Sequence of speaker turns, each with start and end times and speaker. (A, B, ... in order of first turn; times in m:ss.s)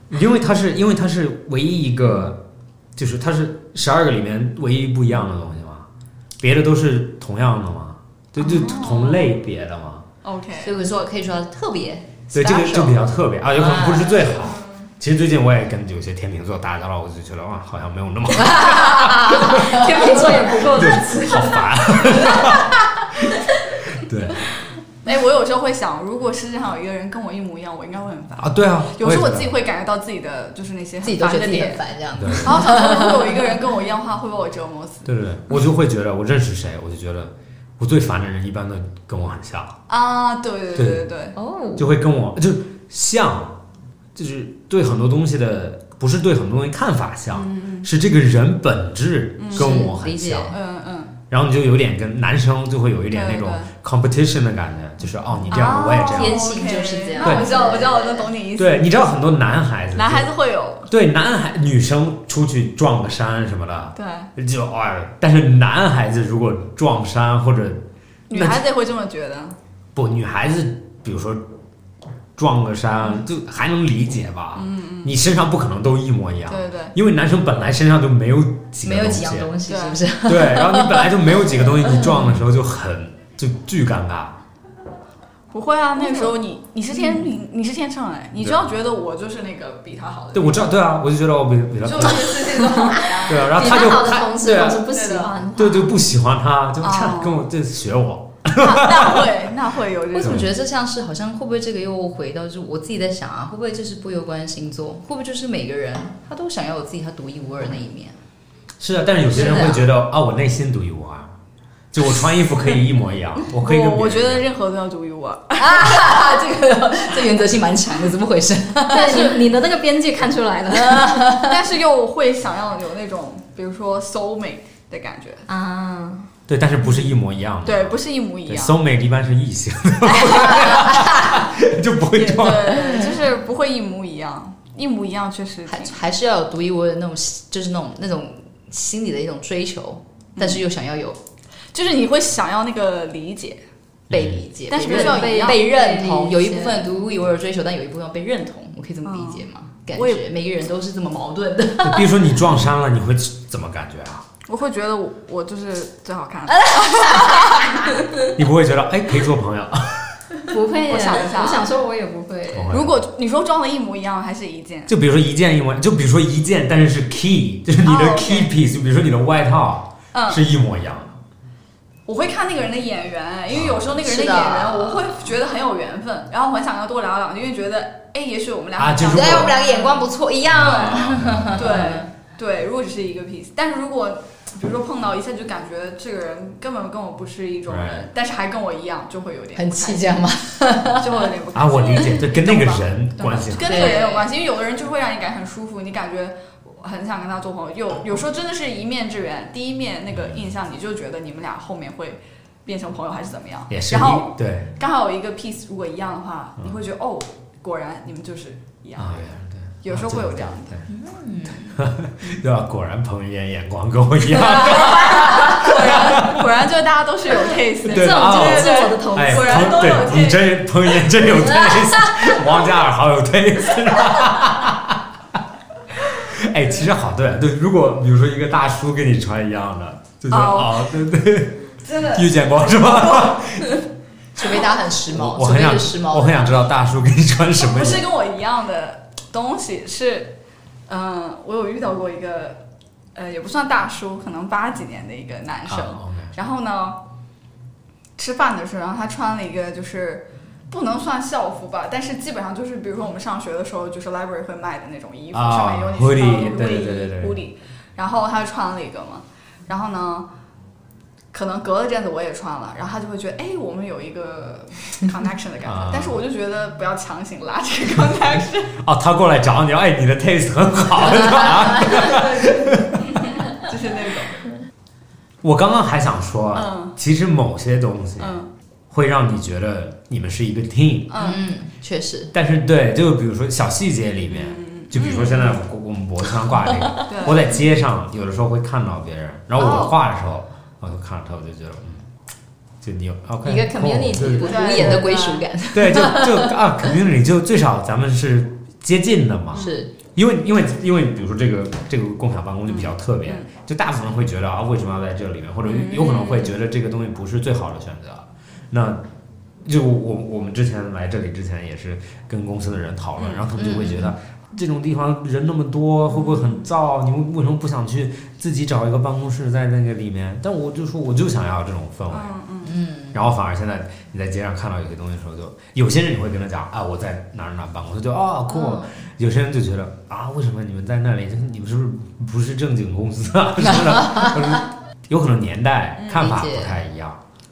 0:00.1-0:02.4 A
0:03.0-0:05.9 A
0:06.4-0:10.1 A
0:08.4-0:08.9 B
0:08.4-0:09.3 C
0:10.2-0:10.8 C
0:10.6-0:14.4 B
0:12.3-0:24.5 A
0:18.4-0:20.4 B
0:19.3-0:22.4 D
0:25.0-0:31.8 C
0:28.4-0:29.6 A
0:31.0-0:33.6 B
0:32.2-0:32.6 A
0:32.4-0:35.1 C
0:35.0-0:39.8 A
0:39.9-0:41.4 C
0:40.8-0:41.1 A
0:41.4-0:41.9 B
0:41.8-0:43.6 A
0:44.2-0:50.6 A
0:47.3-0:47.9 C
0:49.4-0:49.9 C
0:49.5-0:50.6 B
0:50.5-0:51.2 C
0:51.3-0:56.5 A
0:53.1-0:53.7 C
0:55.5-0:58.9 C
0:55.5-0:58.3 B
0:57.2-0:57.6 A
0:58.6-1:00.3 A
1:00.0-1:00.9 C
1:00.9-1:08.6 A
1:04.0-1:04.3 C
1:08.3-1:09.6 C
1:10.0-1:11.4 A
1:12.4-1:19.5 A
1:14.6-1:15.2 C
1:16.5-1:17.0 C
1:18.8-1:22.3 B
1:19.7-1:20.0 C
1:20.2-1:24.4 A
1:25.5-1:30.7 C
1:28.4-1:28.7 A
1:30.3-1:32.5 A
1:31.8-1:33.9 C
1:33.3-1:34.9 A
1:33.4-1:35.9 D
1:34.9-1:35.3 C
1:35.6-1:39.3 A
1:36.8-1:37.5 C
1:38.5-1:40.5 C
1:40.1-1:48.2 B
1:40.2-1:40.5 A
1:48.8-1:51.3 A
1:49.3-1:49.8 B
1:51.9-1:54.5 A
1:53.6-1:56.2 C
1:55.6-1:59.5 B
1:58.9-2:01.4 D
2:00.7-2:01.6 B
2:01.4-2:05.5 C
2:05.5-2:06.3 D
2:06.5-2:13.0 A
2:07.6-2:08.8 C
2:10.1-2:10.9 C
2:10.7-2:11.3 B
2:12.2-2:16.0 C
2:12.7-2:13.2 B
2:15.7-2:21.2 B
2:20.4-2:20.6 C
2:21.7-2:23.6 C
2:24.1-2:24.5 A
2:24.1-2:32.4 B
2:24.7-2:25.6 C
2:24.9-2:26.9 D
2:29.0-2:30.2 C
2:31.8-2:34.3 A
2:34.5-2:38.1 C
2:36.5-2:38.0 B
2:38.3-2:40.2 A
2:40.5-2:42.7 D
2:40.9-2:41.7 C
2:42.5-2:43.0 A
2:42.7-2:44.9 C
2:44.9-2:51.2 A
2:47.8-2:48.5 C
2:50.1-2:50.4 C
2:52.1-3:10.2 C
2:53.5-2:54.0 A
2:54.0-2:55.2 B
2:58.8-2:59.6 A
2:59.1-3:02.1 B
3:00.5-3:01.9 A
3:07.7-3:08.1 A
3:09.6-3:11.3 B
3:11.0-3:30.8 C
3:11.5-3:14.1 A
3:13.6-3:14.3 B
3:20.1-3:20.5 A
3:23.7-3:24.7 A
3:29.0-3:30.8 A
3:30.9-3:31.8 B
3:31.8-3:36.4 A
3:34.3-3:40.7 C
3:37.9-3:40.0 D
3:37.9-3:45.1 A
3:46.0-3:53.8 A
3:50.3-3:50.8 C
3:51.8-3:53.8 C
3:54.4-3:56.6 B
3:55.1-3:58.1 A
3:57.6-4:02.6 C
4:03.2-4:07.0 C
4:05.7-4:06.3 A
4:08.2-4:20.3 C
4:15.3-4:17.4 A
4:21.3-4:28.7 C
4:25.6-4:26.2 A
4:28.7-4:33.3 A
4:31.6-4:32.1 B
4:32.0-4:32.4 C
4:33.2-4:34.4 C
4:35.4-4:38.4 A
4:36.5-4:37.0 C
4:38.2-4:38.5 C
4:38.9-4:41.2 A
4:41.1-4:41.4 C
4:41.2-4:42.3 B
4:42.3-4:52.1 A
4:44.3-4:45.6 C
4:46.7-4:47.4 B
4:47.1-4:47.6 C
4:49.6-4:50.0 C
4:52.8-4:55.1 A
4:53.4-4:54.8 D
4:53.8-4:56.6 B
4:54.4-4:55.5 C
4:55.7-5:09.0 A
4:59.5-4:59.8 C
4:59.5-4:59.9 B
5:02.7-5:03.5 C
5:05.6-5:06.6 C
5:09.6-5:22.4 A
5:13.2-5:13.5 C
5:13.6-5:14.1 B
5:16.2-5:16.6 C
5:22.1-5:22.8 C
5:22.6-5:23.2 B
5:23.1-5:37.2 A
5:28.5-5:28.9 B
5:33.8-5:34.4 B
5:36.0-5:36.3 C
5:36.1-5:36.8 B